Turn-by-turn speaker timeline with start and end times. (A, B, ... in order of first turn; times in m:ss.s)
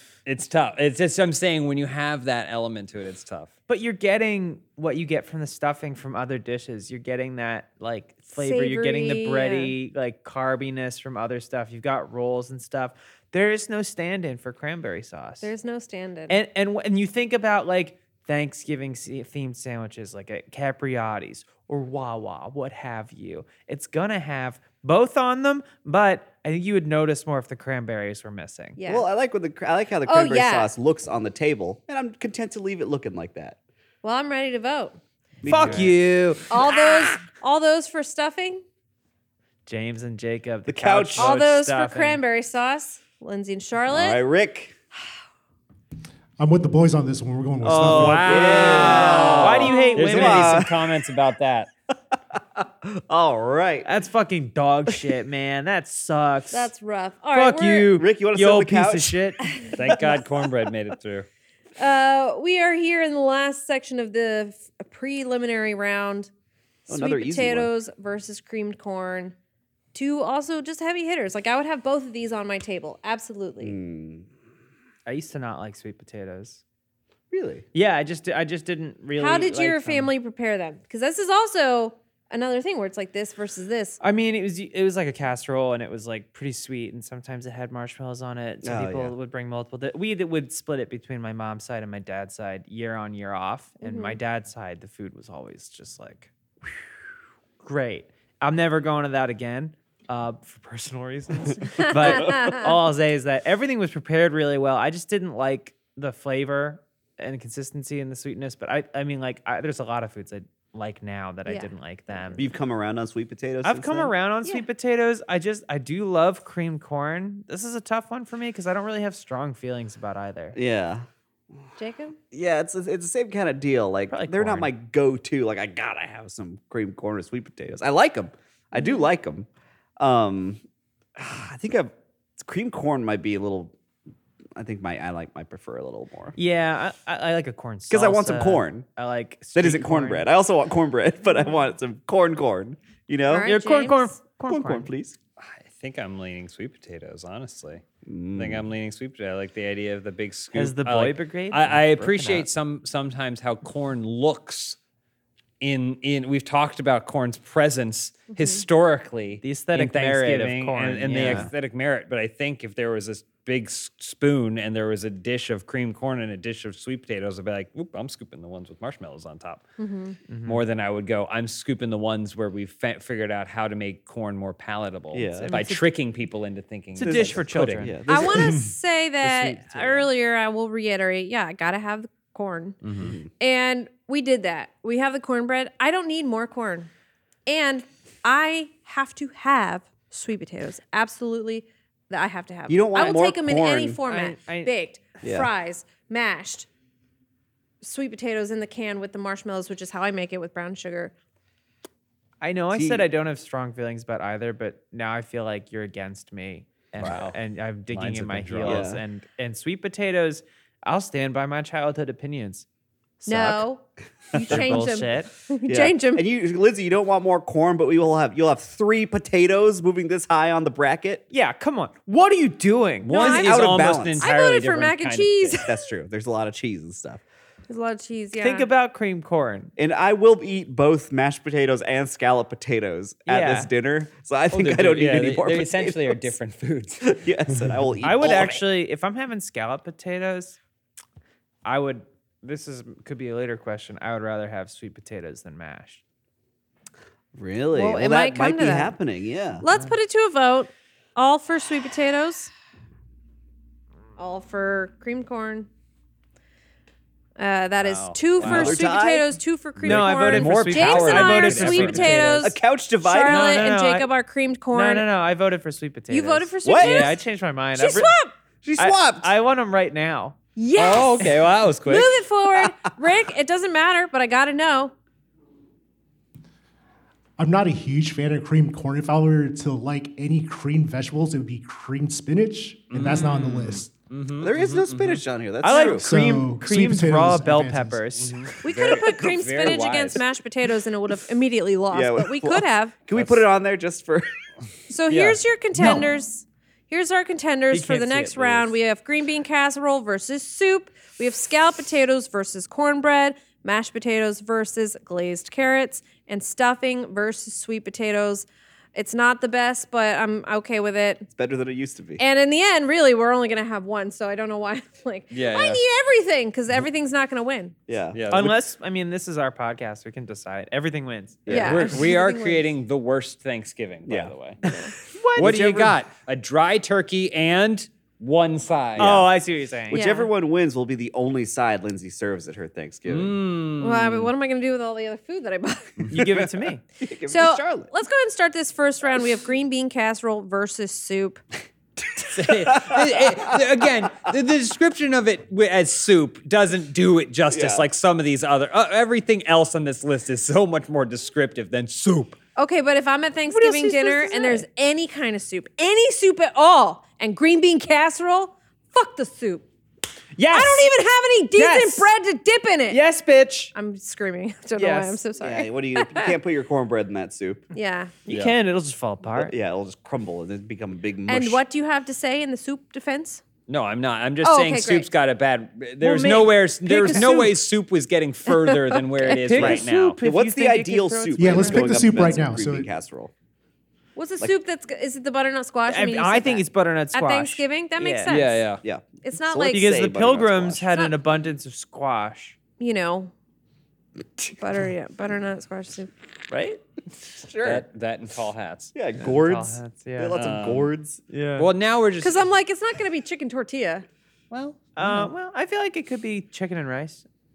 0:00.3-0:03.5 A
0:03.7-0:15.5 B
0:08.4-0:09.7 C
0:15.4-0:16.4 C
0:16.3-0:28.8 B
0:28.8-0:29.1 C
0:28.9-0:33.6 D
0:30.1-0:30.7 C
0:34.0-0:35.0 C
0:35.4-0:36.0 D
0:35.5-0:36.4 B
0:35.5-0:36.3 A
0:36.5-0:38.6 C
0:39.7-0:42.2 B
0:40.7-0:41.3 D
0:41.2-0:44.2 C
0:43.9-0:44.8 D
0:46.4-0:48.4 E
0:47.6-0:50.6 B
0:47.8-0:51.7 A
0:48.2-0:50.8 D
0:49.6-0:50.2 C
0:52.3-0:53.9 D
0:53.8-0:56.7 B
0:56.5-0:57.9 C
0:57.3-0:59.4 B
0:57.9-0:59.2 D
0:59.7-1:01.3 A
1:01.8-1:06.3 C
1:06.9-1:09.4 C
1:06.9-1:07.7 D
1:09.9-1:13.8 C
1:13.6-1:14.3 D
1:15.1-1:16.6 B
1:17.3-1:17.6 D
1:17.7-1:20.1 B
1:19.2-1:24.0 C
1:24.0-1:36.9 B
1:28.6-1:29.2 D
1:33.8-1:34.2 C
1:37.6-1:52.5 B
1:41.8-1:42.7 C
1:41.9-1:42.7 D
1:51.5-1:52.4 C
1:52.4-1:54.1 D
1:53.6-2:00.6 B
2:00.5-2:01.1 D
2:01.8-2:02.2 C
2:02.3-2:09.5 D
2:04.1-2:04.7 B
2:08.8-2:09.0 C
2:10.0-2:10.6 D
2:11.2-2:13.7 D
2:14.6-2:16.4 D
2:16.4-2:20.3 B
2:17.9-2:18.9 D
2:19.6-2:23.5 D
2:23.3-2:24.2 C
2:23.4-2:24.9 B
2:24.5-2:25.2 D
2:25.4-2:27.8 A
2:28.0-2:28.6 D
2:28.4-2:34.8 A
2:30.5-2:32.5 B
2:35.6-2:49.6 A
2:39.4-2:41.5 B
2:41.2-2:41.5 D
2:49.8-2:50.2 C
2:50.3-2:50.6 B
2:50.4-2:58.7 A
2:55.1-2:55.6 D
2:55.4-2:55.9 B
2:57.0-2:58.0 B
2:57.0-2:58.7 D
2:58.1-3:02.8 C
2:59.2-3:00.0 D
3:02.8-3:03.1 A
3:03.0-3:03.3 D
3:03.4-3:06.9 C
3:07.5-3:16.7 C
3:12.7-3:14.0 D
3:14.1-3:14.7 B
3:15.2-3:15.5 D
3:17.8-3:21.1 C
3:22.4-3:32.7 B
3:22.7-3:23.1 D
3:27.0-3:27.3 D
3:27.0-3:27.3 A
3:27.9-3:28.9 A
3:28.6-3:29.0 D
3:33.2-3:33.7 B
3:33.3-3:33.8 C
3:34.3-3:36.2 C
3:34.4-3:35.3 B
3:34.5-3:34.8 D
3:35.7-3:41.2 D
3:41.3-3:43.2 B
3:43.0-3:45.6 A
3:43.1-3:45.8 C
3:43.2-3:44.3 D
3:45.6-3:47.2 D
3:47.7-3:48.7 C
3:48.4-3:49.7 B
3:49.8-3:56.3 D
3:53.3-3:53.7 B
3:54.5-3:57.2 A
3:57.0-3:58.6 D
3:58.0-3:58.6 A
3:58.0-4:00.6 B
4:01.6-4:06.0 B
4:07.4-4:09.6 D
4:07.7-4:08.9 C
4:09.6-4:12.5 C
4:14.2-4:15.7 C
4:17.4-4:25.1 C
4:17.8-4:18.8 A
4:18.4-4:19.3 D
4:19.8-4:22.6 B
4:19.9-4:22.3 A
4:22.4-4:23.6 D
4:23.3-4:24.1 B
4:24.7-4:28.2 B
4:26.1-4:27.2 C
4:26.6-4:27.2 D
4:27.8-4:28.3 C
4:28.6-4:29.3 D
4:28.8-4:30.4 B
4:30.6-4:34.9 C
4:30.8-4:32.2 A
4:37.4-4:43.9 E
4:42.9-4:45.2 A
4:44.4-4:46.1 D
4:45.6-4:48.5 B
4:45.7-4:46.0 C
4:46.0-4:48.0 E
4:48.2-4:50.2 A
4:48.6-4:53.0 C
4:51.9-4:54.3 D
4:53.1-4:53.4 A
4:54.9-5:11.3 C
4:55.1-4:55.4 A
4:57.7-4:58.7 B
5:11.3-5:12.2 D
5:12.2-5:17.8 C
5:15.3-5:15.8 A
5:17.9-5:18.2 D
5:18.1-5:18.6 A
5:18.3-5:21.5 B
5:21.5-5:22.0 D
5:21.5-5:22.7 C
5:21.5-5:24.6 A
5:24.1-5:24.3 D
5:24.7-5:24.9 C
5:25.1-5:26.0 B
5:25.4-5:29.3 A
5:29.0-5:30.0 B
5:29.9-5:33.4 D
5:29.9-5:30.3 C
5:33.1-5:34.3 A
5:33.8-5:36.1 C
5:36.1-5:36.8 B
5:37.0-5:37.9 D
5:37.3-5:41.4 C
5:42.2-5:52.4 A
5:42.3-5:43.8 D
5:47.5-5:47.9 D
5:52.6-5:59.6 C
5:53.5-5:54.7 B
6:00.4-6:00.9 B
6:00.5-6:03.0 C
6:01.6-6:02.1 B
6:02.9-6:03.7 B
6:03.8-6:06.4 C
6:04.8-6:05.2 B
6:05.4-6:07.7 D
6:07.7-6:08.1 C
6:08.3-6:09.6 B
6:08.3-6:08.6 A
6:09.3-6:11.6 D
6:11.3-6:13.4 C
6:13.7-6:20.2 A
6:14.4-6:15.1 C
6:16.0-6:17.6 B
6:18.5-6:19.4 C
6:19.3-6:22.0 B
6:19.6-6:23.3 D
6:21.4-6:22.9 E
6:24.2-6:28.6 C
6:25.9-6:28.3 B
6:28.3-6:28.8 A
6:28.8-6:31.0 D
6:29.2-6:29.9 C
6:29.7-6:32.6 B
6:32.8-6:33.3 C
6:34.6-6:36.1 C
6:36.5-6:36.8 B
6:37.4-6:37.8 D
6:37.6-6:38.9 A
6:39.0-6:41.2 D
6:39.2-6:40.4 B
6:40.3-6:40.9 A
6:41.3-6:41.7 B
6:41.6-6:42.4 A
6:42.2-6:44.1 C
6:44.5-6:45.3 A
6:45.0-6:47.2 B